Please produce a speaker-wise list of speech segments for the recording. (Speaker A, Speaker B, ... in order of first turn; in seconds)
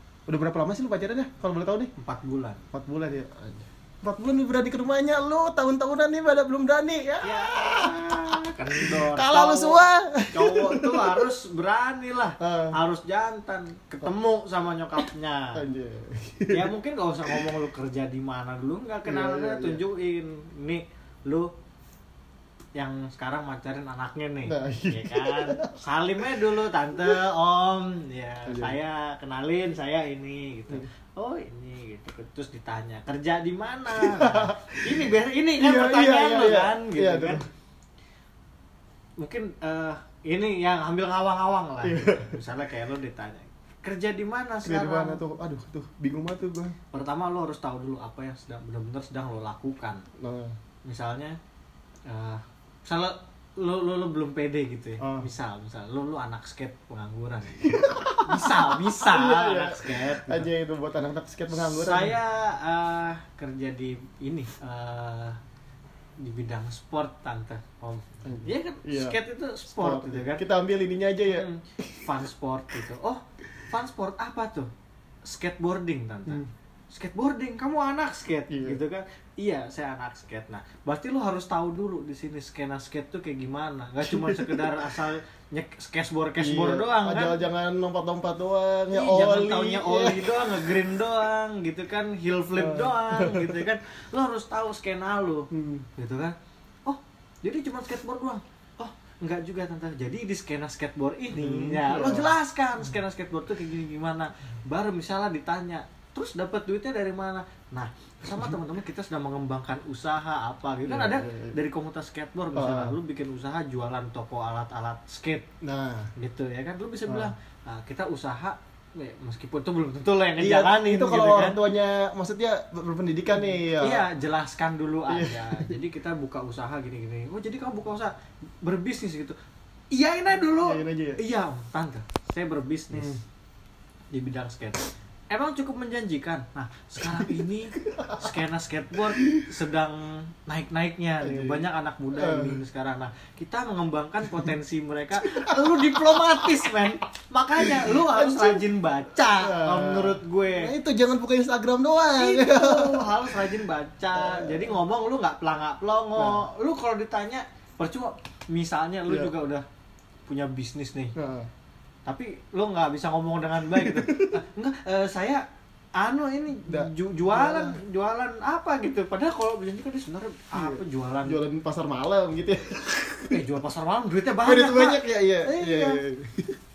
Speaker A: 0.3-1.9, 2.7-11.2, 12.4-12.8, 15.5-16.7, 19.1-19.8, 24.5-25.8, 28.5-28.8, 33.9-35.1, 35.6-37.4, 41.8-42.4, 44.6-46.8, 50.2-50.5, 55.0-55.3, 57.6-62.1, 68.2-69.2, 69.7-72.0, 78.5-78.8, 84.0-85.0, 86.4-90.8, 92.6-93.6, 95.5-95.9, 101.3-102.3, 110.9-111.6, 112.5-113.0, 115.6-116.1, 120.4-124.0, 125.1-125.7, 130.6-131.2, 132.9-133.2, 137.0-138.3, 139.1-139.5, 141.2-142.6, 145.2-146.6, 147.6-148.6, 149.4-153.3, 154.2-154.7, 156.2-156.5, 161.2-161.5, 163.7-164.4, 166.7-167.8, 170.5-173.4, 174.4-176.6
Speaker B: 2.0-2.6, 7.2-15.6, 16.5-21.5, 22.8-37.4, 39.2-45.2, 46.9-50.0, 50.8-51.4, 52.1-60.5, 61.5-65.4, 66.2-70.4, 71.3-74.7, 75.2-87.4, 88.9-115.5, 116.2-121.6, 123.5-129.4, 129.9-133.2, 134.1-150.7, 152.2-159.7, 160.3-161.1, 162.1-165.4, 166.0-171.4, 173.3-176.0